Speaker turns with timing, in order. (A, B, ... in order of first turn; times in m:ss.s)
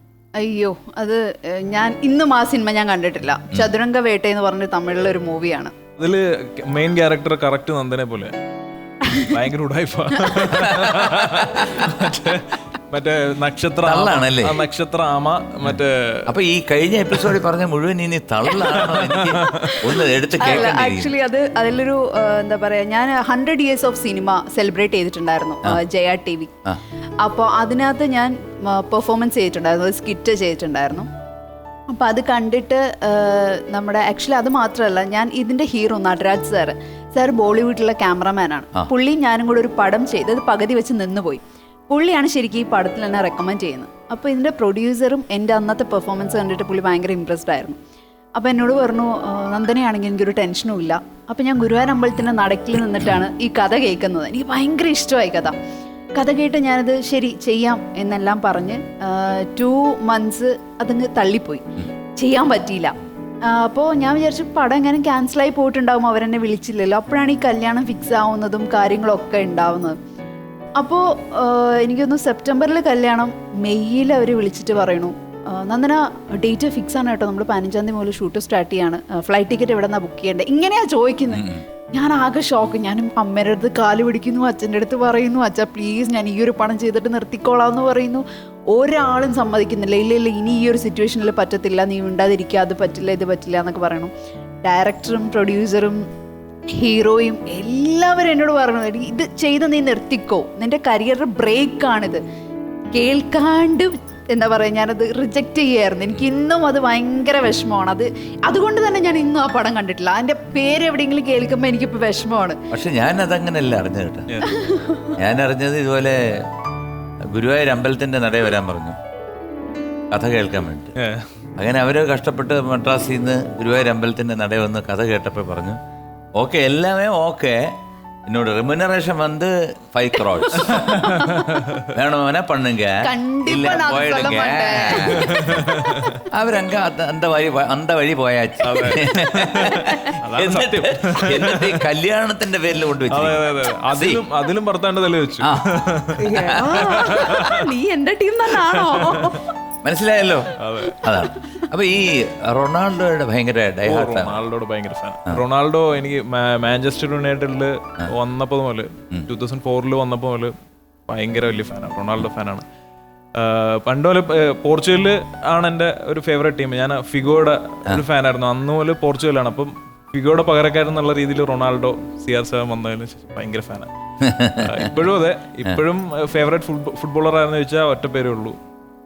0:00.4-0:05.7 A
0:06.0-0:08.3 B
0:09.1-0:09.4 A
0:09.2-0:16.3 B
0:10.2-0:10.5 A
0:10.6-0:11.9 C
0:13.8-0:14.6 C
0:15.7-0:21.1 C
0:18.5-0:18.8 A
0:18.7-0:19.8 B
0:19.4-0:26.5 A
0:27.2-0:31.1 A
0:31.9-0:47.8 A
0:48.4-0:55.6 A
0:56.2-1:01.6 A
1:02.2-1:02.9 A
1:03.5-1:10.0 A
1:10.8-1:34.1 A
1:21.3-1:21.6 C
1:34.6-1:36.0 A
1:36.7-1:42.2 A
1:42.9-1:52.6 A
1:52.7-1:54.3 C
1:54.4-1:55.2 A
1:55.2-1:56.5 C
1:57.3-1:59.0 C
2:00.1-2:01.0 C
2:01.0-2:01.3 B
2:01.6-2:05.8 C
2:06.4-2:07.8 C
2:08.3-2:11.0 C
2:10.5-2:11.9 B
2:11.0-2:11.6 A
2:11.8-2:15.5 C
2:13.0-2:16.0 A
2:15.1-2:16.2 B
2:16.3-2:24.2 C
2:18.6-2:21.8 B
2:19.8-2:20.1 A
2:23.1-2:27.7 B
2:25.4-2:25.7 C
2:26.2-2:29.5 A
2:26.3-2:27.0 C
2:28.7-2:29.4 B
2:29.8-2:34.4 C
2:30.6-2:31.0 B
2:31.4-2:31.7 A
2:33.9-2:40.5 B
2:41.1-2:42.6 B
2:43.4-2:53.9 B
2:54.2-2:54.9 C
2:54.6-2:58.6 B